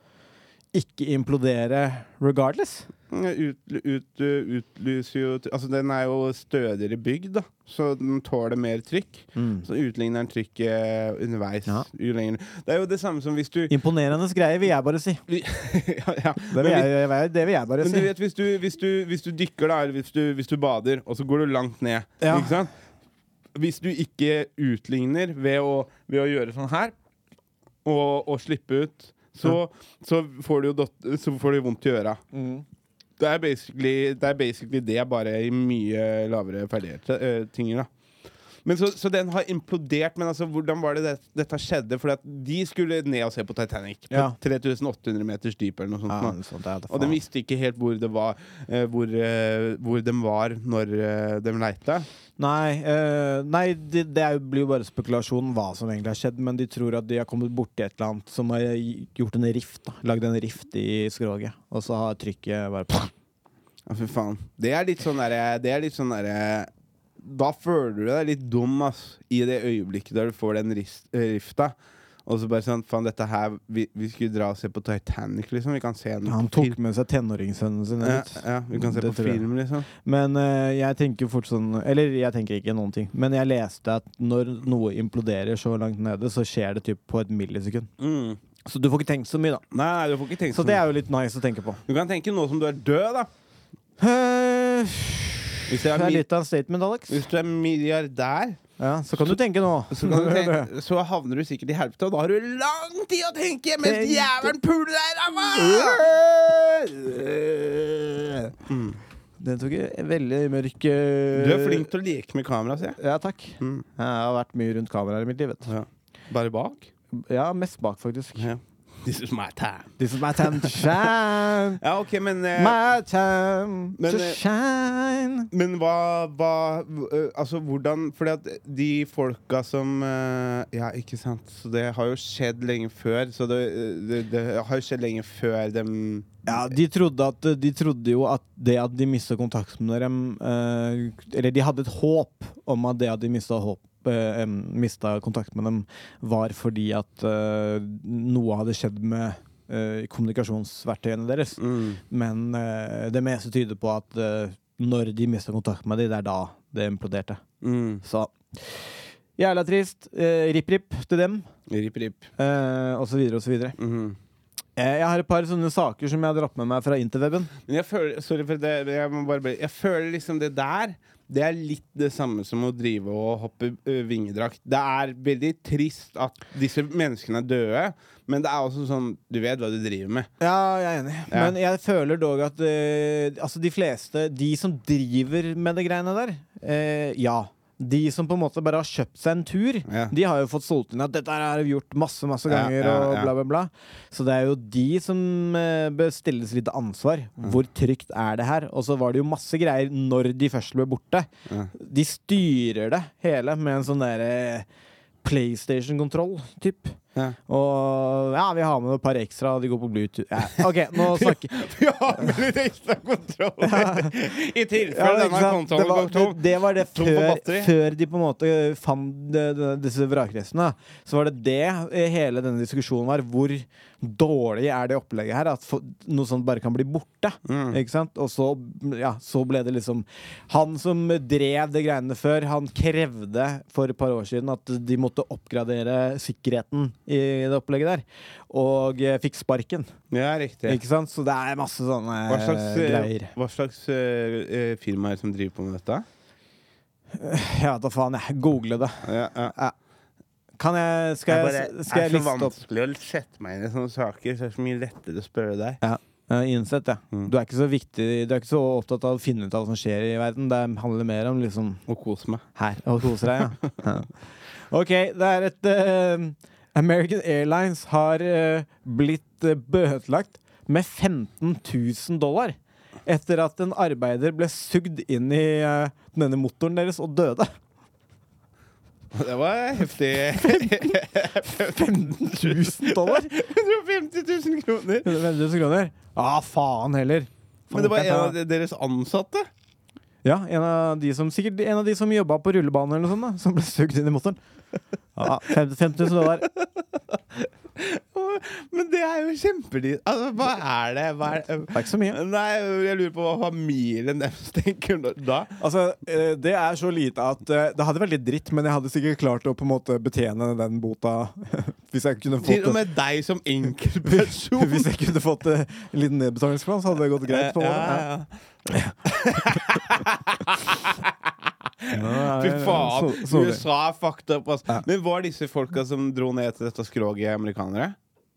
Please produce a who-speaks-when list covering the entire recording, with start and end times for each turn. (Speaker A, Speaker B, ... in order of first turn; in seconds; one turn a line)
Speaker A: 0.7-2.9
Speaker B: 3.1-13.8
Speaker A: 9.3-9.7
Speaker A: 13.7-15.2
Speaker B: 15.3-16.9
Speaker A: 16.5-18.1
Speaker B: 17.8-22.7
Speaker A: 22.2-22.6
Speaker B: 23.5-26.9
Speaker B: 27.8-32.2
Speaker A: 32.3-32.6
Speaker B: 33.2-37.9
Speaker B: 38.6-46.4
Speaker A: 44.1-44.4
Speaker A: 46.1-47.2
Speaker B: 46.9-52.0
Speaker A: 52.4-63.1
Speaker B: 63.9-66.7
Speaker B: 67.2-71.7
Speaker B: 72.2-76.8
Speaker A: 76.2-87.9
Speaker B: 78.0-79.9
Speaker B: 88.0-88.4
Speaker A: 88.6-89.6
Speaker B: 89.7-90.8
Speaker A: 90.5-91.8
Speaker B: 91.9-93.3
Speaker A: 94.0-97.2
Speaker B: 95.7-96.2
Speaker B: 97.1-98.6
Speaker A: 98.8-100.7
Speaker B: 99.9-106.0
Speaker A: 103.8-104.5
Speaker A: 105.5-108.5
Speaker B: 108.7-109.0
Speaker A: 109.4-111.9
Speaker B: 111.3-113.0
Speaker A: 113.0-115.7
Speaker B: 113.6-113.8
Speaker B: 115.7-116.9
Speaker A: 117.1-118.5
Speaker B: 118.4-121.1
Speaker A: 120.0-121.8
Speaker B: 121.8-122.8
Speaker A: 122.5-125.5
Speaker B: 124.0-124.4
Speaker B: 125.5-136.7
Speaker A: 136.4-151.6
Speaker B: 151.6-152.0
Speaker A: 152.1-157.4
Speaker B: 157.6-158.0
Speaker A: 158.0-161.5
Speaker B: 161.7-162.3
Speaker A: 162.4-163.8
Speaker B: 163.8-164.2
Speaker A: 164.8-167.5
Speaker B: 167.7-180.3
Speaker A: 180.4-204.7
Speaker B: 181.3-181.5
Speaker B: 189.9-190.1
Speaker B: 192.5-193.3
Speaker A: 205.2-211.5
Speaker B: 210.6-217.7
Speaker A: 213.6-214.2
Speaker A: 214.8-239.9
Speaker B: 227.4-227.8
Speaker B: 240.1-240.8
Speaker A: 240.7-243.3
Speaker B: 242.3-246.0
Speaker A: 247.1-249.7
Speaker B: 249.0-249.5
Speaker A: 250.6-252.5
Speaker B: 251.3-255.8
Speaker A: 255.8-261.8
Speaker B: 261.9-262.4
Speaker A: 262.6-264.1
Speaker A: 264.7-277.5
Speaker B: 279.1-285.2
Speaker A: 280.3-283.3
Speaker A: 285.0-288.3
Speaker B: 287.7-289.5
Speaker A: 290.2-294.4
Speaker A: 295.1-296.5
Speaker B: 296.4-305.5
Speaker A: 301.7-302.2
Speaker A: 305.6-312.8
Speaker B: 312.4-314.9
Speaker A: 314.1-318.1
Speaker B: 317.3-318.3
Speaker B: 319.1-321.1
Speaker B: 321.8-327.9
Speaker A: 321.9-323.6